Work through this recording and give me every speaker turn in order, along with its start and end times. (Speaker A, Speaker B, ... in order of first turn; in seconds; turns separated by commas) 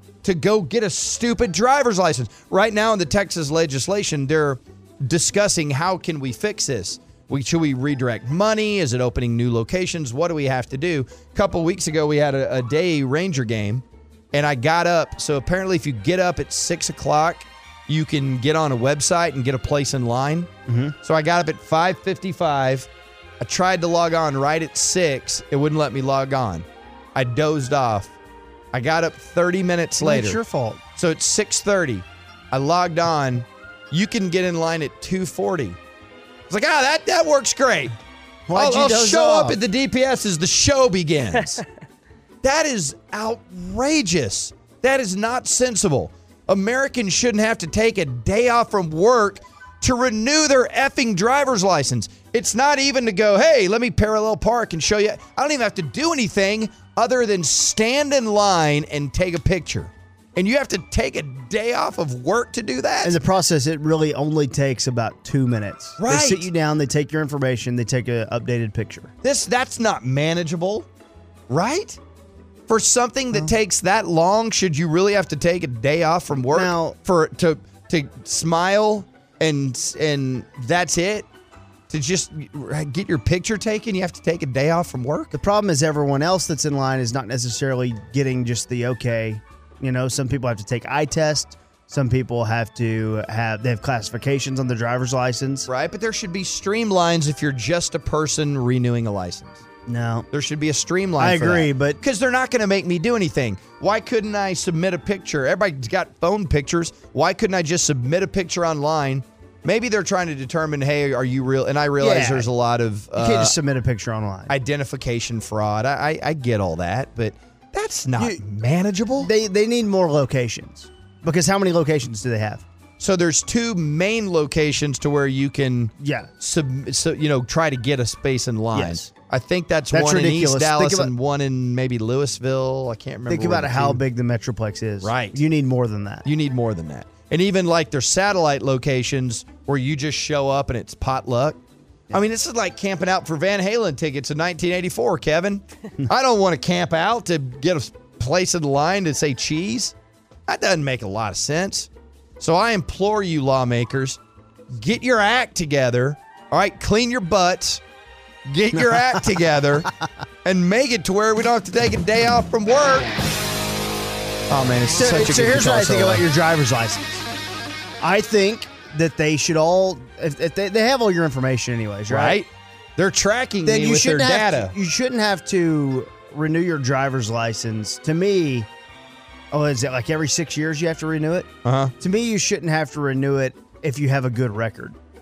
Speaker A: 0.2-20.5, Speaker B: 20.7-20.9, Speaker A: 21.0-22.9, Speaker A: 23.4-28.1, Speaker A: 28.7-30.4, Speaker B: 30.0-30.8, Speaker A: 31.0-35.8, Speaker A: 36.5-38.0, Speaker B: 38.5-39.6, Speaker A: 38.5-41.6, Speaker A: 42.4-63.2, Speaker B: 63.0-69.1, Speaker A: 66.0-66.5, Speaker A: 69.2-70.9, Speaker A: 71.5-72.0, Speaker A: 72.7-81.3, Speaker B: 76.5-77.0, Speaker A: 81.9-85.3, Speaker B: 85.3-95.7, Speaker A: 95.7-99.6, Speaker B: 99.9-100.3, Speaker A: 100.3-113.6, Speaker B: 101.2-102.0, Speaker B: 112.0-112.5, Speaker B: 113.1-114.5, Speaker A: 114.5-119.3, Speaker B: 118.2-118.4, Speaker B: 119.2-122.6, Speaker A: 123.0-134.0, Speaker B: 126.0-126.3, Speaker B: 128.7-129.0, Speaker B: 129.9-131.1, Speaker B: 133.3-136.2, Speaker A: 135.0-135.4, Speaker A: 136.2-141.6, Speaker A: 142.1-149.9, Speaker A: 150.5-157.8, Speaker A: 158.4-159.9, Speaker B: 158.8-159.3, Speaker A: 160.4-163.1, Speaker A: 164.5-166.2, Speaker B: 165.0-167.2, Speaker B: 168.0-172.4, Speaker A: 172.1-174.7, Speaker B: 173.6-178.7, Speaker B: 179.5-181.5, Speaker A: 181.6-181.9, Speaker B: 182.0-185.0